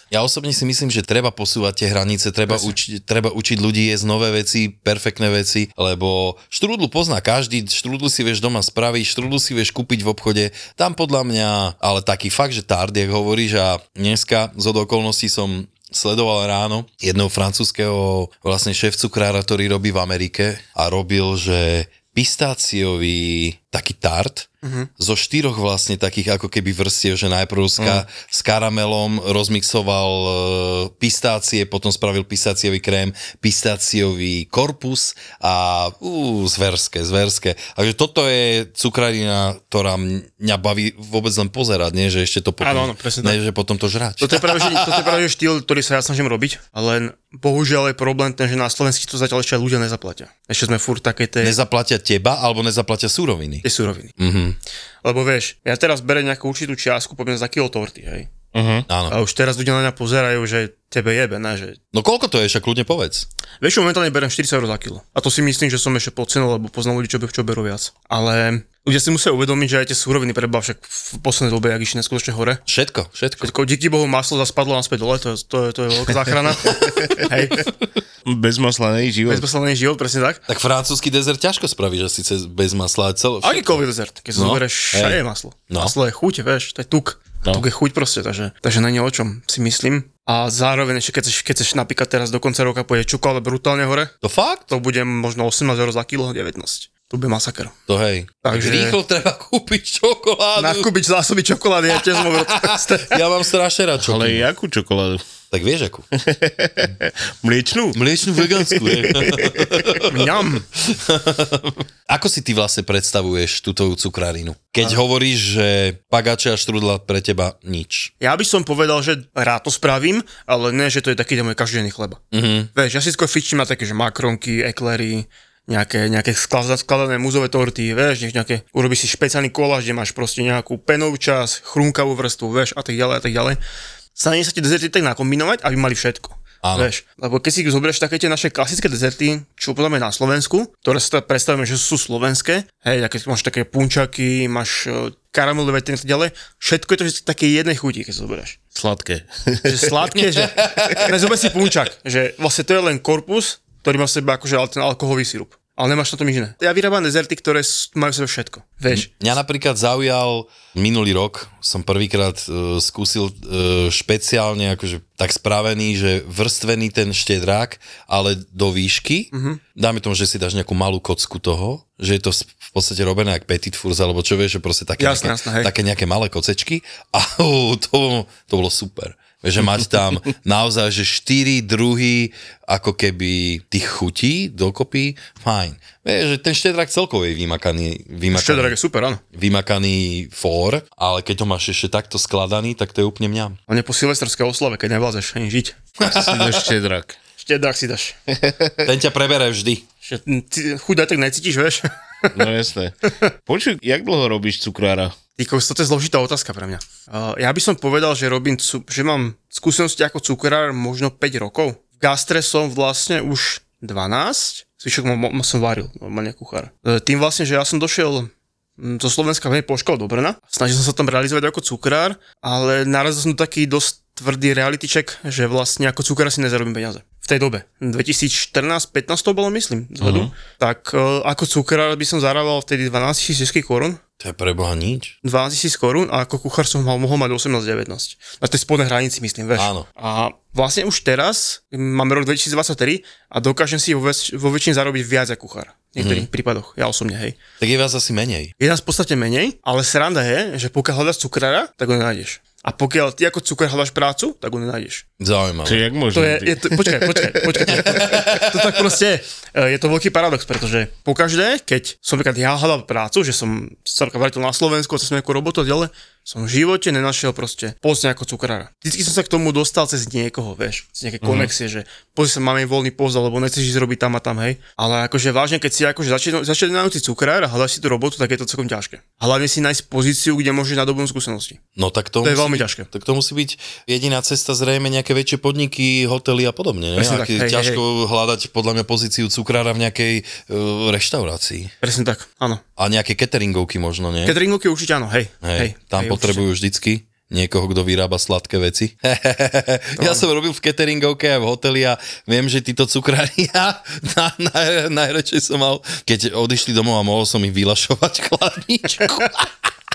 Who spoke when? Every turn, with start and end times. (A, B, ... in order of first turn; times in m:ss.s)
0:00.1-0:45.2 A
0:02.5-0:02.7 B
0:24.6-0:24.9 B
0:42.6-0:43.4 B
0:44.2-0:51.6 B
0:51.4-0:53.6 A
0:53.6-0:54.1 B
0:54.2-0:54.6 A
0:55.0-0:58.3 B
0:58.5-0:58.9 C
0:58.9-0:59.2 A
0:59.1-1:01.8 B
1:01.9-1:03.3 A
1:03.6-1:12.6 B
1:12.7-1:13.5 A
1:13.4-1:17.7 B
1:18.2-1:19.5 C
1:19.3-1:20.4 B
1:20.5-1:23.8 A
1:23.4-1:34.1 B
1:24.3-1:26.0 A
1:34.2-1:34.7 A
1:34.7-1:37.7 B
1:37.9-1:40.9 A
1:38.4-1:39.0 B
1:40.6-1:43.2 B
1:41.9-1:44.4 A
1:44.0-1:45.2 C
1:45.5-1:46.1 A
1:46.2-1:49.9 C
1:47.9-1:58.1 A
1:50.0-1:50.6 B
1:58.2-2:02.2 B
2:02.3-2:02.7 A
2:02.7-2:13.6 B
2:14.2-2:28.6 B
2:16.6-2:16.9 A
2:28.8-2:29.9 C
2:29.6-2:39.1 B
2:30.3-2:31.5 A
2:38.9-3:08.8 A
2:49.3-2:49.6 B
2:55.0-2:55.7 B
3:08.3-3:09.2 B
3:09.3-3:13.6 A
3:13.7-3:15.8 B
3:16.0-3:16.7 A
3:16.0-3:17.2 C
3:17.4-3:18.2 B
3:18.3-3:18.7 C
3:18.8-3:19.8 A
3:20.0-3:22.3 B
3:22.3-3:25.2 C
3:25.4-3:54.0 B
3:50.0-3:50.3 C
3:54.2-3:55.2 A
3:55.2-4:07.4 B
3:59.6-3:59.9 A
4:06.0-4:06.3 A
4:07.6-4:08.5 A
4:08.6-4:15.0 B
4:15.2-4:15.8 A
4:15.6-4:17.3 C
4:16.1-4:41.6 B
4:17.7-4:18.8 A
4:31.2-4:31.5 C
4:41.8-4:51.7 A
4:42.2-4:42.9 B
4:47.0-4:47.8 B
4:51.8-4:52.6 B
4:52.8-4:54.4 A
4:54.2-4:56.4 B
4:55.4-5:09.5 A
5:00.0-5:00.2 B